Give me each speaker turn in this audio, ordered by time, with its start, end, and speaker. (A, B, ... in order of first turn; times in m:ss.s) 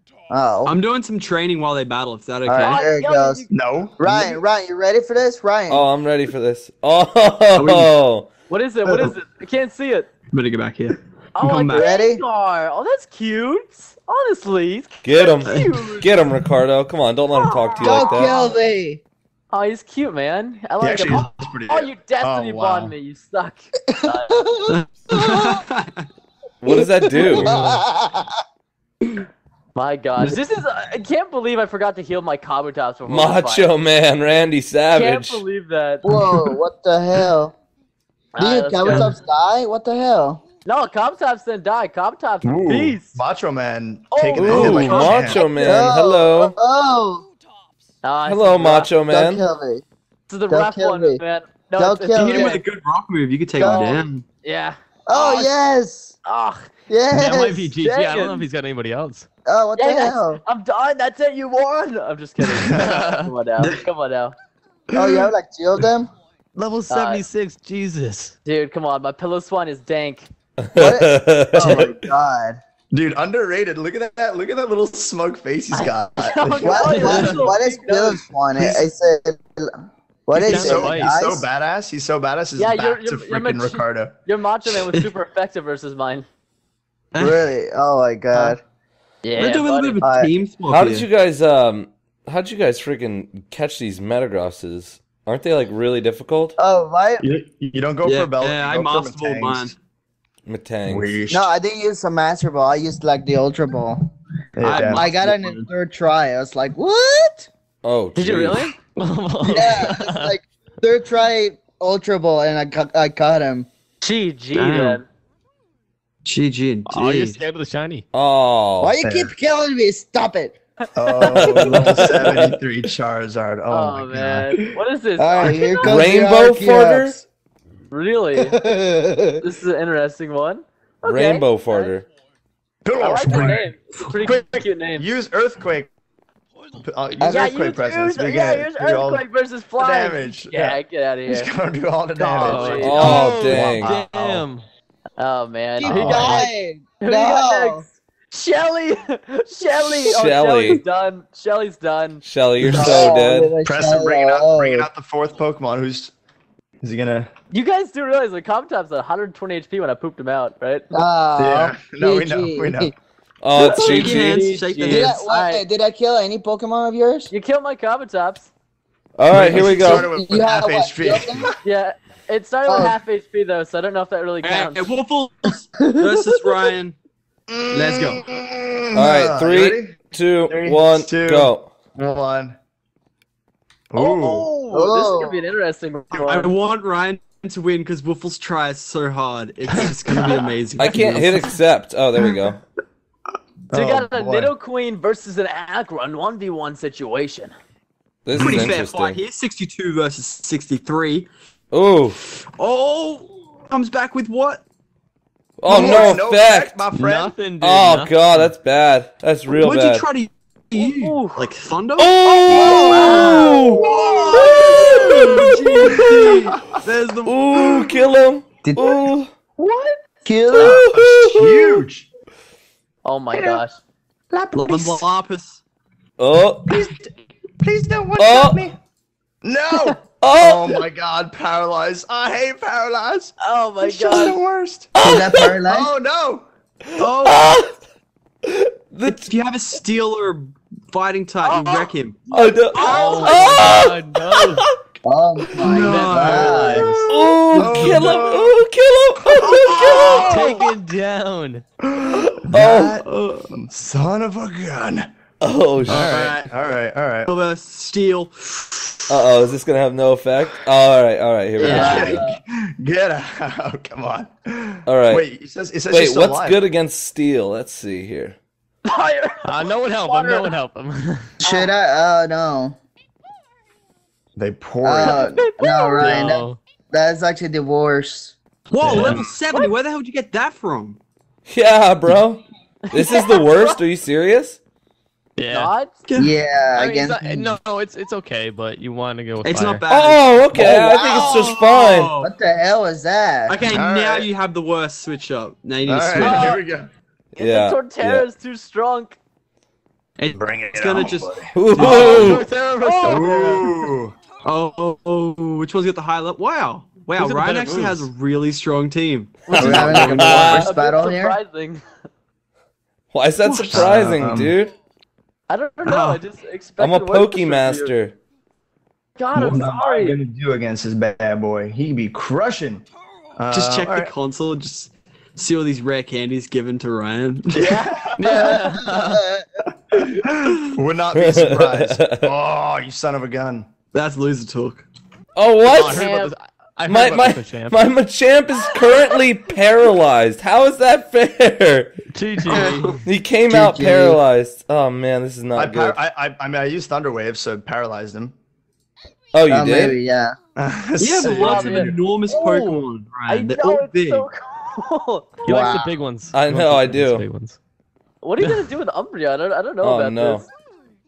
0:00.3-0:00.8 A
0:00.6-0:02.8 B
0:02.4-0:03.4 A
0:02.6-0:03.5 C
0:03.5-0:04.4 D
0:04.0-0:05.9 A
0:05.7-0:08.3 E
0:07.6-0:07.9 B
0:08.5-0:10.1 C
0:10.3-0:11.9 B
0:11.4-0:16.1 C
0:11.7-0:12.2 A
0:15.0-0:18.4 E
0:15.4-0:15.9 B
0:17.8-0:19.0 A
0:19.5-0:24.4 C
0:20.8-0:22.9 D
0:23.9-0:25.5 A
0:24.7-0:26.1 B
0:26.6-0:27.6 E
0:26.7-0:28.3 A
0:29.8-0:33.7 C
0:33.1-0:35.4 E
0:35.0-0:36.0 C
0:36.0-0:37.6 A
0:38.3-0:39.1 C
0:38.4-0:40.4 A
0:38.9-0:39.1 B
0:40.6-0:43.2 C
0:42.4-0:45.4 D
0:44.1-0:45.9 C
0:44.4-0:46.6 E
0:44.4-0:45.2 B
0:45.6-0:47.2 A
0:48.0-0:48.9 C
0:48.2-0:49.4 E
0:49.1-0:49.8 A
0:50.3-0:52.6 C
0:50.5-0:51.2 A
0:51.8-0:52.6 A
0:52.2-0:54.2 B
0:53.6-0:54.0 A
0:53.6-0:55.5 C
0:55.1-0:56.2 A
0:56.2-0:56.7 C
0:56.9-0:57.7 A
0:57.1-0:59.3 F
0:57.8-0:58.4 C
0:59.4-1:00.4 A
0:59.8-1:04.4 C
1:02.6-1:03.0 D
1:02.8-1:03.3 F
1:04.9-1:06.1 A
1:06.6-1:08.4 F
1:06.9-1:07.2 C
1:08.4-1:10.3 C
1:10.6-1:12.0 E
1:10.8-1:12.6 A
1:12.9-1:17.4 D
1:15.7-1:18.2 C
1:16.6-1:21.5 A
1:16.9-1:17.2 F
1:20.4-1:21.2 F
1:20.4-1:24.2 D
1:22.6-1:26.3 C
1:27.1-1:27.4 B
1:27.2-1:28.6 A
1:29.2-1:30.0 C
1:29.4-1:31.0 B
1:30.0-1:30.3 A
1:30.7-1:36.6 E
1:36.6-1:37.2 A
1:37.2-1:39.7 D
1:38.0-1:39.8 B
1:40.5-1:41.2 E
1:40.9-1:41.5 D
1:41.3-1:44.1 A
1:44.6-1:45.2 D
1:44.6-1:45.7 B
1:44.7-1:47.5 A
1:47.8-1:48.7 E
1:48.2-1:48.8 C
1:49.0-1:50.4 F
1:49.4-1:53.7 A
1:54.0-1:55.1 C
1:54.5-1:55.0 B
1:56.2-1:57.4 B
1:56.9-1:58.0 F
1:58.1-1:59.0 E
1:58.8-2:00.6 A
1:59.0-1:59.3 D
2:01.0-2:04.8 D
2:01.4-2:02.5 E
2:03.7-2:05.8 C
2:05.2-2:07.2 A
2:05.8-2:07.2 E
2:07.9-2:08.6 C
2:08.4-2:09.4 A
2:09.4-2:11.9 C
2:11.1-2:12.1 E
2:12.8-2:13.7 D
2:13.0-2:15.1 C
2:15.0-2:15.9 D
2:16.8-2:19.2 D
2:17.2-2:17.5 A
2:17.2-2:21.5 C
2:19.8-2:24.1 D
2:22.2-2:23.2 C
2:22.4-2:24.7 F
2:22.8-2:24.0 E
2:25.2-2:32.2 C
2:25.8-2:27.8 A
2:25.8-2:26.4 D
2:30.0-2:30.8 E
2:32.2-2:33.6 E
2:32.6-2:34.9 A
2:32.6-2:36.1 D
2:36.8-2:37.3 D
2:37.5-2:40.8 C
2:40.9-2:42.9 A
2:41.4-2:42.9 D
2:43.4-2:44.5 E
2:43.6-2:45.6 C
2:43.7-2:45.2 B
2:44.9-2:47.3 A
2:47.3-2:48.5 C
2:49.2-2:50.1 E
2:49.3-2:51.6 D
2:49.4-2:51.5 A
2:51.6-2:55.0 C
2:52.7-2:53.0 A
2:54.4-2:57.0 B
2:57.5-3:00.0 D
2:57.7-2:58.2 B
2:58.9-3:01.7 E
3:00.5-3:02.6 D
3:03.9-3:04.5 D
3:04.0-3:06.5 C
3:04.7-3:05.4 A
3:06.1-3:11.5 B
3:10.1-3:11.2 D
3:10.8-3:12.6 E
3:13.7-3:14.5 D
3:13.7-3:17.5 C
3:18.3-3:19.2 E
3:18.4-3:21.3 B
3:18.4-3:18.7 D
3:21.7-3:22.2 E
3:22.4-3:24.6 B
3:25.6-3:26.9 E
3:25.7-3:27.4 D
3:25.8-3:26.2 B
3:26.9-3:28.5 F
3:27.6-3:30.1 E
3:29.5-3:33.8 B
3:30.8-3:31.4 C
3:32.0-3:33.8 E
3:32.2-3:35.6 C
3:32.5-3:36.8 D
3:34.5-3:37.5 B
3:34.5-3:39.3 E
3:37.6-3:38.0 D
3:38.6-3:39.1 A
3:39.6-3:39.9 C
3:40.2-3:41.0 A
3:40.5-3:41.8 E
3:40.6-3:42.1 D
3:43.0-3:43.8 C
3:43.3-3:43.6 D
3:44.3-3:45.0 D
3:44.5-3:45.6 B
3:46.2-3:46.8 E
3:46.7-3:48.8 D
3:48.2-3:48.6 E
3:49.4-3:54.9 D
3:50.2-3:50.8 E
3:53.4-3:54.4 C
3:55.0-3:55.6 E
3:55.0-3:55.9 A
3:55.6-3:56.5 D
3:57.0-3:57.8 E
3:57.0-3:57.7 B
3:58.4-3:59.3 E
3:59.1-4:02.3 B
4:01.4-4:01.9 C
4:02.3-4:04.5 E
4:02.8-4:04.7 F
4:02.9-4:03.1 C
4:02.9-4:03.9 D
4:05.0-4:06.9 A
4:05.5-4:08.6 D
4:05.7-4:08.2 B
4:05.8-4:07.0 F
4:07.1-4:10.3 E
4:07.5-4:07.8 F
4:09.3-4:10.5 B
4:09.3-4:10.7 D
4:10.2-4:11.6 F
4:11.9-4:15.1 D
4:12.5-4:12.9 E
4:12.8-4:13.6 B
4:15.4-4:16.1 E
4:15.9-4:17.3 D
4:15.9-4:16.5 B
4:15.9-4:16.4 F
4:17.3-4:19.0 B
4:19.1-4:22.2 E
4:21.6-4:22.4 C
4:21.6-4:26.6 D
4:21.7-4:22.2 A
4:24.9-4:25.2 E
4:25.9-4:28.4 E
4:28.9-4:30.5 C
4:29.4-4:31.4 F
4:31.4-4:31.7 C
4:31.4-4:32.8 A
4:34.4-4:35.4 D
4:34.8-4:38.4 A
4:35.0-4:36.0 C
4:36.0-4:36.6 F
4:38.7-4:41.0 B
4:38.8-4:39.3 D
4:41.5-4:44.6 E
4:42.9-4:43.8 C
4:45.4-4:45.7 F
4:45.5-4:45.9 C
4:46.1-4:46.4 B
4:46.2-4:47.5 A
4:46.7-4:49.8 F
4:49.4-4:52.3 B
4:49.9-4:52.1 E
4:50.6-4:51.3 A
4:52.2-4:53.6 A
4:53.5-4:56.6 B
4:53.6-4:54.3 D
4:55.8-4:56.9 D
4:56.2-4:56.6 C
4:57.3-4:58.3 E
4:57.4-4:59.2 C
5:00.2-5:02.4 B
5:00.4-5:02.1 D
5:01.5-5:02.5 E
5:01.8-5:03.7 F
5:02.8-5:03.4 C
5:03.0-5:04.2 D
5:04.4-5:10.6 B
5:07.2-5:08.1 F
5:09.5-5:10.7 E
5:09.6-5:11.4 A
5:10.4-5:11.8 C
5:13.1-5:14.7 E
5:13.4-5:13.9 B
5:13.7-5:14.5 D
5:15.5-5:17.9 C
5:15.8-5:16.2 B
5:16.8-5:18.2 E
5:19.2-5:20.2 C
5:19.4-5:24.1 D
5:23.5-5:27.8 B
5:27.5-5:28.6 D
5:27.7-5:28.7 C
5:28.2-5:29.2 F
5:28.3-5:29.4 A
5:29.9-5:33.7 D
5:31.1-5:32.3 E
5:33.9-5:34.9 B
5:35.4-5:36.1 E
5:35.7-5:36.0 D
5:35.8-5:37.8 F
5:35.8-5:36.3 C
5:36.9-5:42.0 E
5:42.1-5:43.0 F
5:42.5-5:42.9 B
5:42.6-5:46.0 E
5:43.5-5:44.2 A
5:45.6-5:48.4 D
5:49.3-5:50.0 E
5:49.5-5:50.4 A
5:50.6-5:52.0 D
5:51.0-5:54.3 B
5:51.4-5:55.7 C
5:55.4-5:57.6 F
5:55.5-5:55.9 A
5:56.3-5:57.2 E
5:58.2-6:00.4 C
5:58.4-5:58.7 F
5:59.8-6:00.4 E